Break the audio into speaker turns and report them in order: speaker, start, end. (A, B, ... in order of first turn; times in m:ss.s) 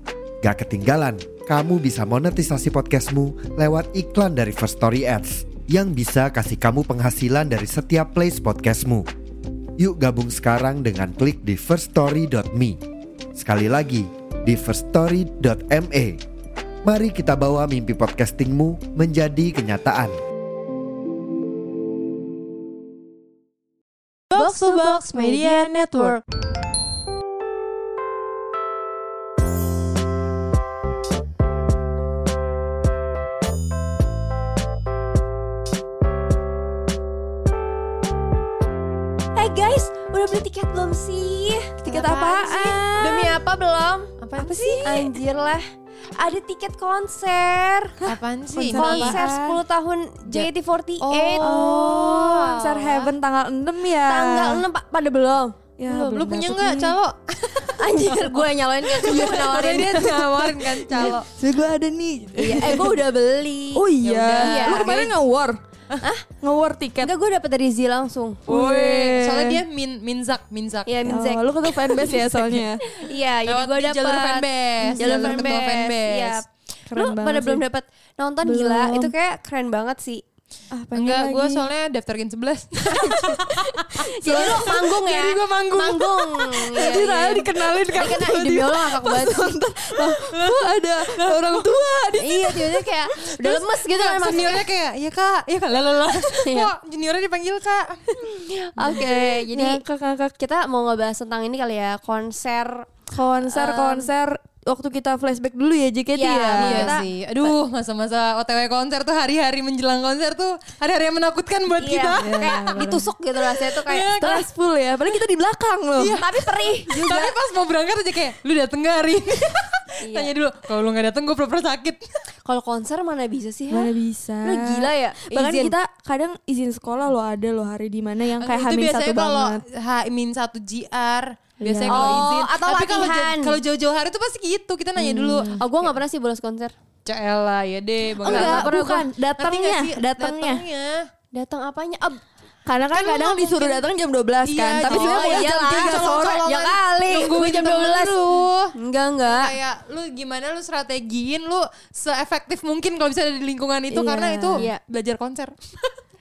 0:00.4-0:09.1 A
0:09.8-0:12.8 A
0:13.3-0:16.2 A
0:16.8-0:20.2 A
0:24.3-0:26.0 B
0:24.3-0:26.2 C
0:25.1-0:25.9 D
0:39.3-0:41.8 C
0:41.8-0:42.8 D
0:41.8-0:43.4 B
0:42.4-0:45.6 C
0:44.2-0:45.1 B
0:46.2-0:48.0 C
0:48.0-0:49.6 D
0:48.0-0:49.2 B
0:48.7-0:53.1 C
0:50.2-0:51.8 B
0:51.4-0:54.6 D
0:54.0-0:55.6 C
0:55.8-0:57.0 D
0:55.9-0:58.4 B
0:57.8-1:00.3 C
0:59.0-1:01.3 B
0:59.1-0:59.6 D
1:00.6-1:03.0 D
1:02.4-1:03.8 C
1:03.7-1:05.6 D
1:04.0-1:05.1 B
1:04.4-1:05.0 C
1:06.4-1:07.1 D
1:07.0-1:08.4 C
1:08.4-1:10.9 B
1:08.5-1:09.6 D
1:10.8-1:12.3 C
1:11.0-1:12.8 D
1:12.8-1:20.2 C
1:13.4-1:16.4 B
1:14.8-1:15.9 D
1:16.9-1:17.6 D
1:18.4-1:19.1 D
1:20.7-1:21.7 D
1:20.9-1:27.0 B
1:23.0-1:23.3 C
1:23.9-1:29.6 C
1:24.2-1:24.5 D
1:26.7-1:33.5 D
1:27.6-1:28.2 B
1:30.0-1:31.7 B
1:32.2-1:34.6 C
1:33.4-1:38.1 B
1:36.4-1:36.7 C
1:38.2-1:39.8 C
1:38.8-1:40.3 D
1:40.4-1:42.9 C
1:43.1-1:47.0 D
1:43.4-1:44.1 C
1:46.1-1:47.0 C
1:46.6-1:52.4 B
1:51.8-1:54.3 C
1:52.2-1:53.1 D
1:53.5-1:54.4 B
1:54.2-1:56.2 D
1:56.0-2:02.0 B
1:56.1-1:57.3 C
2:00.0-2:00.3 C
2:02.4-2:05.7 C
2:03.7-2:09.6 D
2:08.4-2:15.9 B
2:11.6-2:12.2 D
2:11.8-2:13.6 C
2:15.0-2:15.6 D
2:15.6-2:16.7 C
2:17.0-2:21.0 B
2:18.2-2:20.6 D
2:18.2-2:18.8 C
2:21.3-2:22.2 C
2:22.6-2:26.4 D
2:22.9-2:23.8 B
2:24.4-2:28.7 B
2:24.8-2:28.2 C
2:28.7-2:29.5 C
2:29.2-2:35.9 B
2:33.9-2:34.6 D
2:34.5-2:34.8 C